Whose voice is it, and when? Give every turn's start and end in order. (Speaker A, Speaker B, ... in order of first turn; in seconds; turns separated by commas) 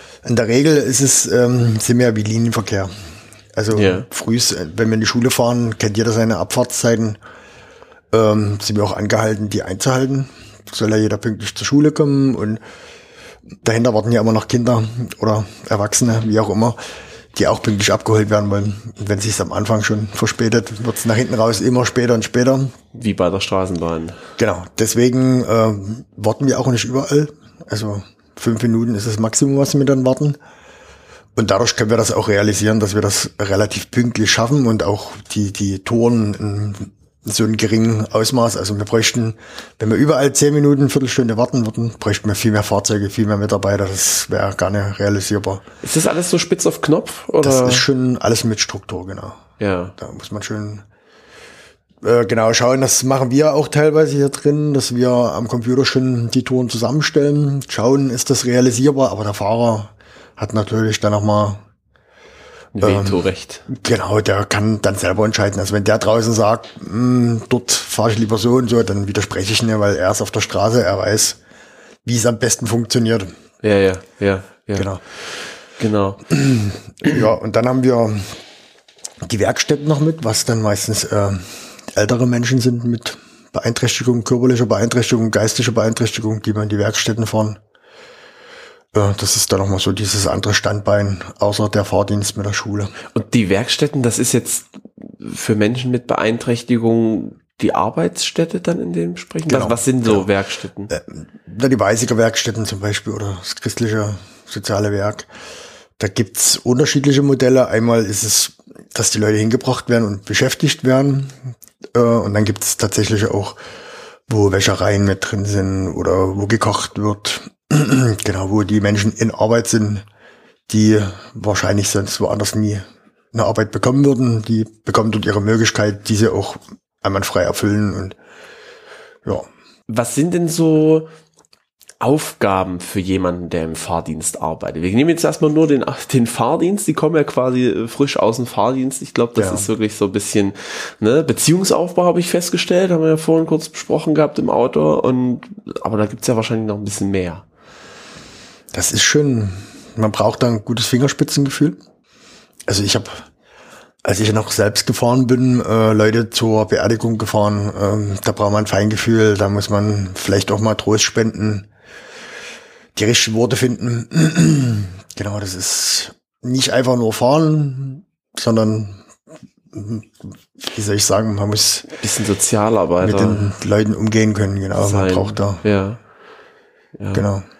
Speaker A: 0.2-2.9, Speaker A: 3.5-7.2, Speaker B: 3.7-4.1, Speaker A: 8.1-12.6, Speaker A: 13.6-16.8, Speaker A: 17.3-22.7, Speaker B: 22.9-24.2, Speaker A: 24.4-30.4, Speaker A: 31.4-45.6, Speaker B: 45.8-47.8, Speaker A: 47.4-49.4, Speaker B: 49.6-49.9, Speaker A: 50.0-50.8, Speaker A: 52.0-61.6, Speaker B: 62.7-63.6, Speaker A: 62.8-71.4, Speaker A: 72.0-73.3, Speaker B: 73.6-74.9, Speaker A: 74.8-75.0, Speaker B: 75.8-76.3, Speaker A: 76.3-78.3, Speaker A: 79.2-87.6, Speaker A: 88.9-92.9, Speaker B: 93.1-100.9, Speaker A: 99.5-100.3, Speaker A: 100.9-105.3, Speaker A: 106.0-113.6, Speaker A: 114.3-120.0, Speaker A: 120.7-128.2, Speaker B: 129.9-131.1, Speaker B: 132.0-147.4, Speaker A: 139.3-139.7, Speaker A: 148.7-151.8, Speaker A: 152.7-153.2, Speaker A: 154.0-161.7, Speaker A: 162.9-169.0, Speaker A: 169.7-171.8, Speaker B: 171.9-173.5, Speaker A: 173.0-175.6, Speaker B: 174.8-176.0, Speaker B: 177.0-177.2, Speaker A: 177.1-177.4